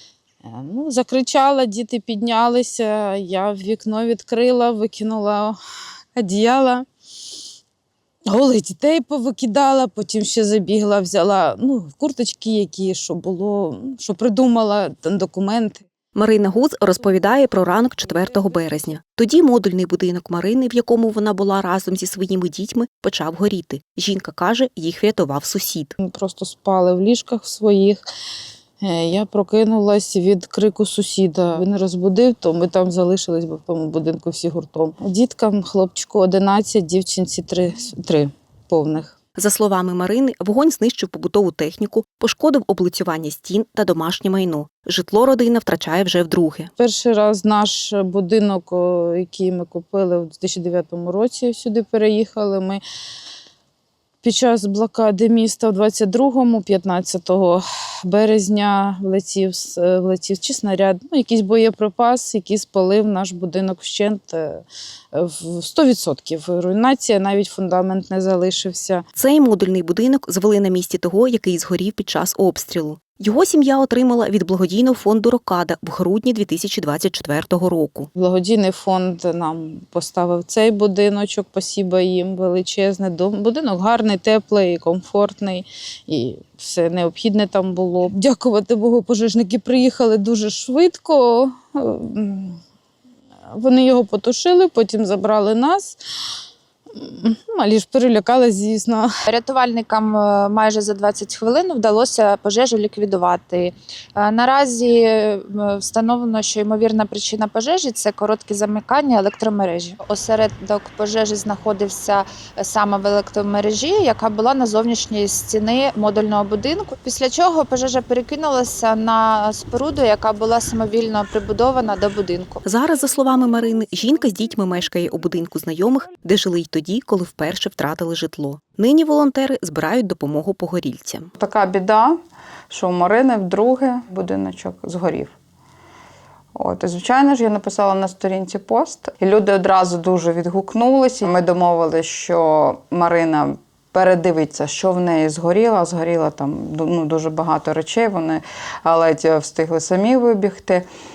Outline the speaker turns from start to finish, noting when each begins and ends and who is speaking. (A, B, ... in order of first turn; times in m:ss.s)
0:00.4-0:05.6 A
0:06.1-0:06.9 A
0:08.3-0:15.8 A
0:16.2-0:26.0 B
0:26.0-0:28.0 A
0:28.8-0:39.2 A
0:39.4-0:46.7 B
0:46.8-0:52.8 A
0:54.2-1:09.0 A
1:09.2-1:18.1 B
1:18.2-1:32.6 A
1:33.5-1:36.0 A
1:37.0-1:39.1 A
1:39.3-2:02.6 C
2:02.6-2:11.3 B
2:11.4-2:12.2 D
2:12.7-2:15.4 D
2:16.6-2:30.9 D